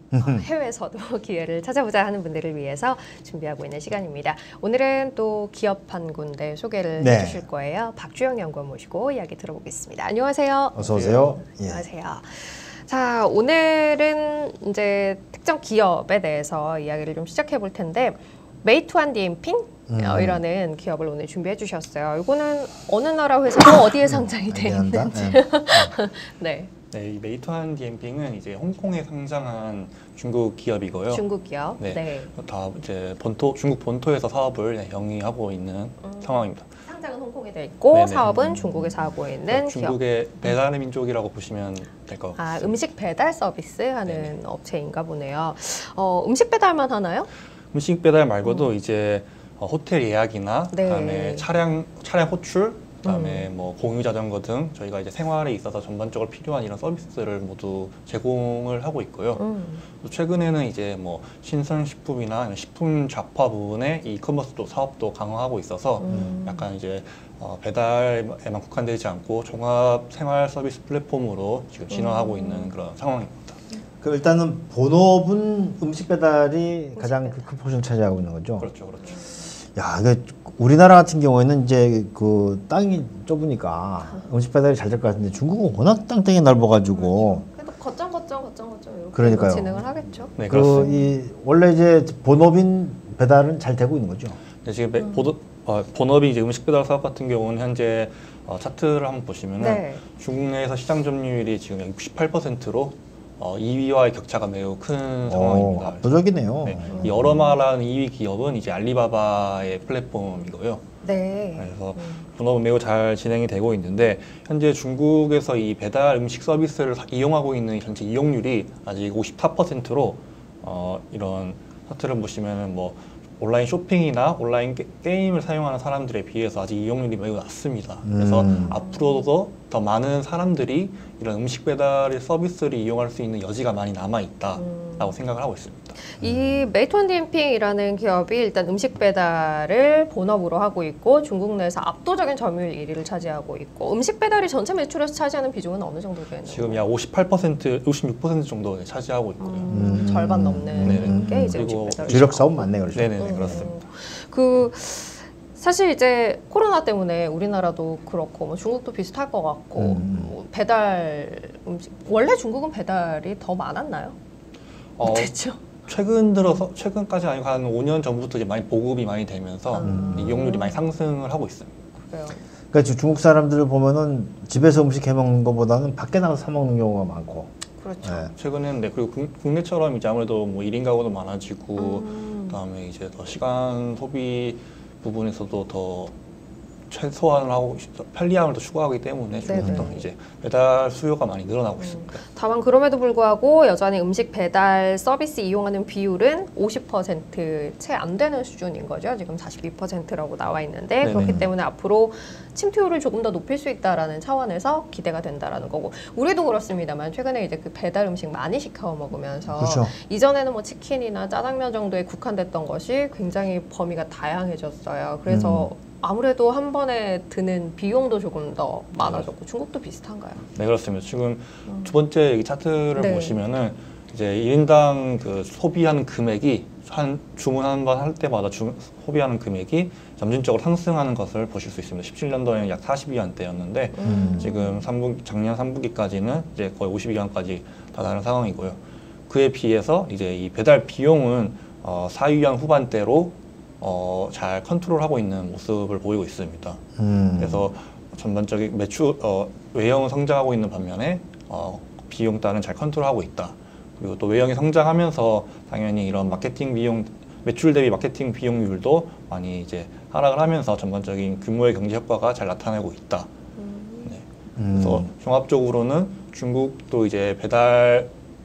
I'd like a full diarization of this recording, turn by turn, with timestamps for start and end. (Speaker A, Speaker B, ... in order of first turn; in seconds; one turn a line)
Speaker A: 0.1-0.5
Speaker B: 0.2-26.7
Speaker A: 7.0-7.4
Speaker A: 10.8-11.8
Speaker C: 10.9-11.4
Speaker A: 19.9-20.4
Speaker A: 24.5-25.9
Speaker C: 26.9-31.2
Speaker B: 31.1-32.3
Speaker C: 31.8-36.7
Speaker B: 36.0-40.0
Speaker C: 37.9-38.5
Speaker A: 38.3-38.9
Speaker C: 39.5-42.7
Speaker B: 42.4-47.3
Speaker C: 44.1-44.4
Speaker C: 47.7-59.4
Speaker B: 48.5-48.7
Speaker B: 50.7-51.5
Speaker B: 53.0-53.5
Speaker B: 59.4-59.8
Speaker C: 60.0-73.6
Speaker B: 66.0-66.7
Speaker A: 66.1-66.4
Speaker B: 71.9-72.7
Speaker A: 74.0-78.7
Speaker B: 77.0-77.5
Speaker C: 78.6-79.2
Speaker B: 79.0-79.5
Speaker A: 79.6-87.5
Speaker B: 86.9-91.1
Speaker A: 89.1-94.4
Speaker C: 90.4-90.9
Speaker C: 94.6-110.8
Speaker B: 95.0-95.3
Speaker B: 99.6-100.0
Speaker A: 105.3-107.4
Speaker B: 106.9-107.5
Speaker B: 111.0-112.3
Speaker C: 111.6-136.0
Speaker A: 128.1-128.8
Speaker B: 128.7-129.3
Speaker B: 134.6-135.1
Speaker B: 136.0-146.8
Speaker A: 136.2-136.7
Speaker C: 146.5-149.7
Speaker B: 149.4-164.2
Speaker A: 149.7-153.7
Speaker C: 150.8-153.8
Speaker A: 159.8-160.3
Speaker C: 165.0-165.3
Speaker B: 165.0-165.6
Speaker C: 165.9-171.7
Speaker B: 169.7-170.8
Speaker A: 169.8-170.5
Speaker B: 172.0-172.4
Speaker A: 172.7-178.3
Speaker B: 177.8-178.3
Speaker C: 178.4-186.1
Speaker B: 181.8-182.6
Speaker C: 186.9-192.2
Speaker B: 189.4-190.0
Speaker A: 189.6-189.9
Speaker B: 191.8-220.4
Speaker C: 201.0-201.5
Speaker A: 201.1-201.5
Speaker A: 209.5-209.9
Speaker A: 215.3-215.7
Speaker C: 219.0-219.3
Speaker C: 220.6-246.8
Speaker B: 221.7-221.9
Speaker B: 222.9-223.4
Speaker B: 233.9-234.9
Speaker A: 234.0-234.5
Speaker A: 247.0-247.7
Speaker C: 247.4-263.3
Speaker B: 263.6-264.1
Speaker A: 264.6-265.1
Speaker C: 264.8-268.1